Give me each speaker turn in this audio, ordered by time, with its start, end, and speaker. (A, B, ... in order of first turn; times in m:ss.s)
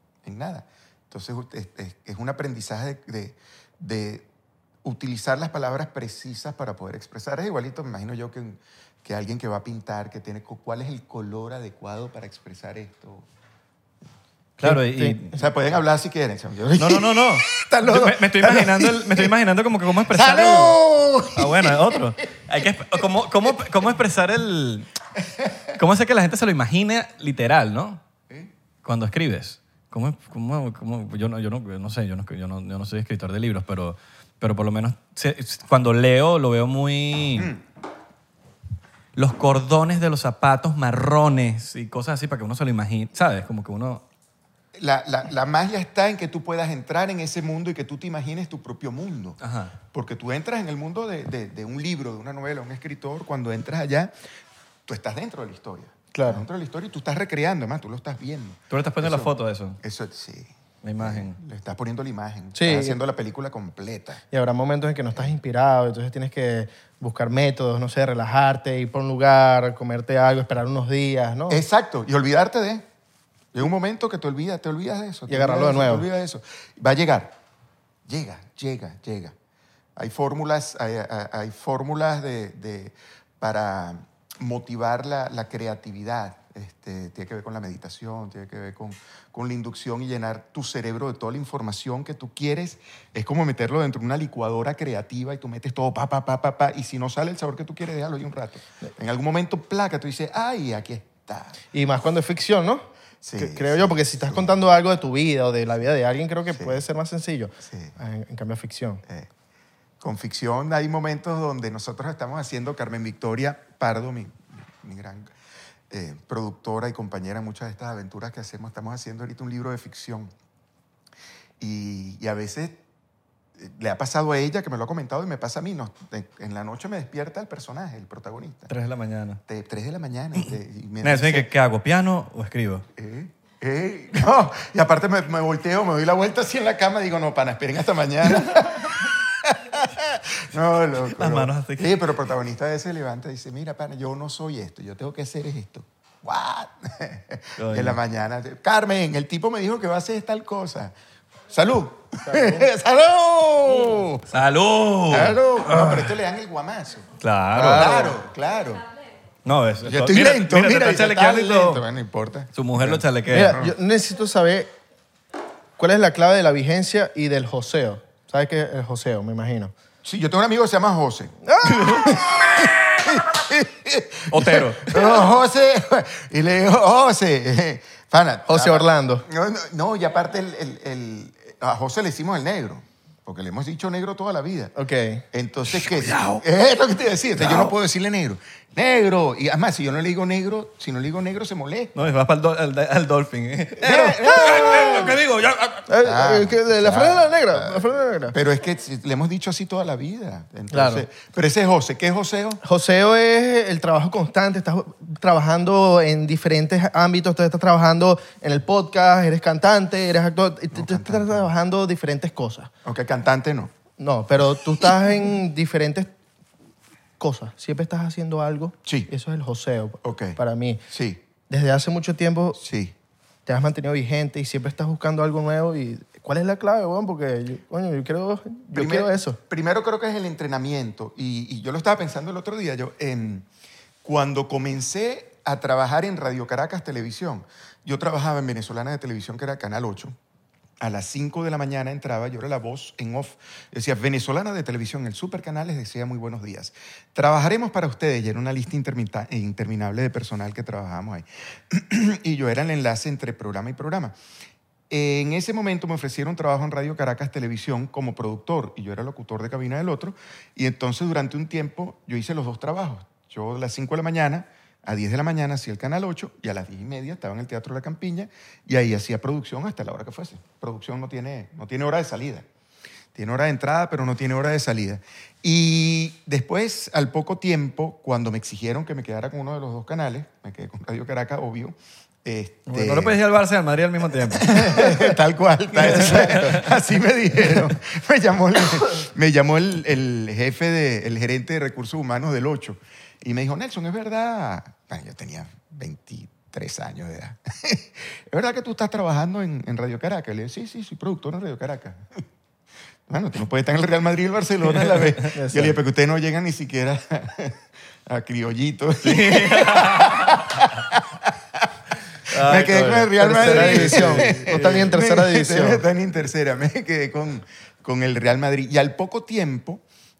0:00.2-0:04.3 A
0:04.8-0:13.3 A
0:14.6-0:15.4 B
0:14.6-0:15.2 C
0:15.3-0:19.4 A
0:16.8-0:20.8 B
0:20.1-0:22.1 A
0:21.3-0:24.9 B
0:25.4-0:25.7 A
0:25.7-0:28.0 B
0:28.8-0:37.5 B
0:37.4-0:37.6 A
0:39.2-0:44.0 B
0:44.8-0:49.4 A
0:49.4-0:49.8 B
0:49.9-0:54.1 A
0:54.9-1:04.2 A
0:56.1-0:56.4 C
0:58.7-0:59.8 B
1:00.8-1:01.4 B
1:02.6-1:03.0 C
1:04.3-1:11.6 C
1:11.5-1:12.8 A
1:13.5-1:17.4 A
1:15.3-1:16.1 C
1:18.1-1:19.4 A
1:20.0-1:41.6 A
1:41.7-1:49.0 C
1:43.2-1:44.6 A
1:46.5-1:46.8 A
1:47.6-1:47.9 A
1:50.0-1:55.3 A
1:55.9-2:00.3 A
2:01.6-2:02.8 A
2:03.6-2:08.7 A
2:08.7-2:09.4 B
2:09.5-2:11.5 A
2:11.0-2:12.8 B
2:13.0-2:30.9 A
2:21.1-2:22.0 B
2:27.6-2:28.0 B
2:31.5-2:34.4 A
2:32.2-2:32.7 C
2:34.3-2:36.2 B
2:35.1-2:38.8 A
2:37.2-2:38.0 B
2:37.6-2:38.2 C
2:39.4-2:41.8 B
2:39.8-2:43.7 A
2:42.6-2:43.6 B
2:43.3-2:44.7 C
2:45.8-2:49.7 C
2:50.0-3:04.7 A
2:51.4-2:52.0 C
2:51.7-2:52.2 B
2:54.3-2:55.2 B
2:58.5-2:59.3 C
3:04.8-3:05.2 C
3:05.3-3:11.9 A
3:05.7-3:06.4 B
3:07.4-3:07.7 B
3:12.0-3:15.9 B
3:13.8-3:15.2 A
3:14.4-3:15.0 C
3:15.9-3:18.4 C
3:16.0-3:22.6 A
3:20.7-3:21.1 C
3:22.6-3:32.7 C
3:30.7-3:31.5 A
3:32.8-3:33.7 A
3:34.0-3:36.1 C
3:37.2-3:40.8 C
3:38.8-3:39.1 A
3:40.0-3:40.4 A
3:40.9-3:41.2 A
3:41.5-3:42.6 C
3:42.6-3:43.0 A
3:43.5-3:49.4 C
3:48.7-3:53.5 A
3:54.0-4:00.2 A
4:00.8-4:14.2 A
4:14.9-4:32.5 A
4:33.1-4:43.2 A
4:42.7-4:45.1 B
4:44.2-5:02.2 A
4:45.8-4:46.8 B
5:03.1-5:11.7 A
5:04.7-5:05.3 B
5:05.3-5:05.8 C
5:09.0-5:10.6 B
5:12.3-5:14.9 B
5:12.4-5:19.8 A
5:13.2-5:15.8 C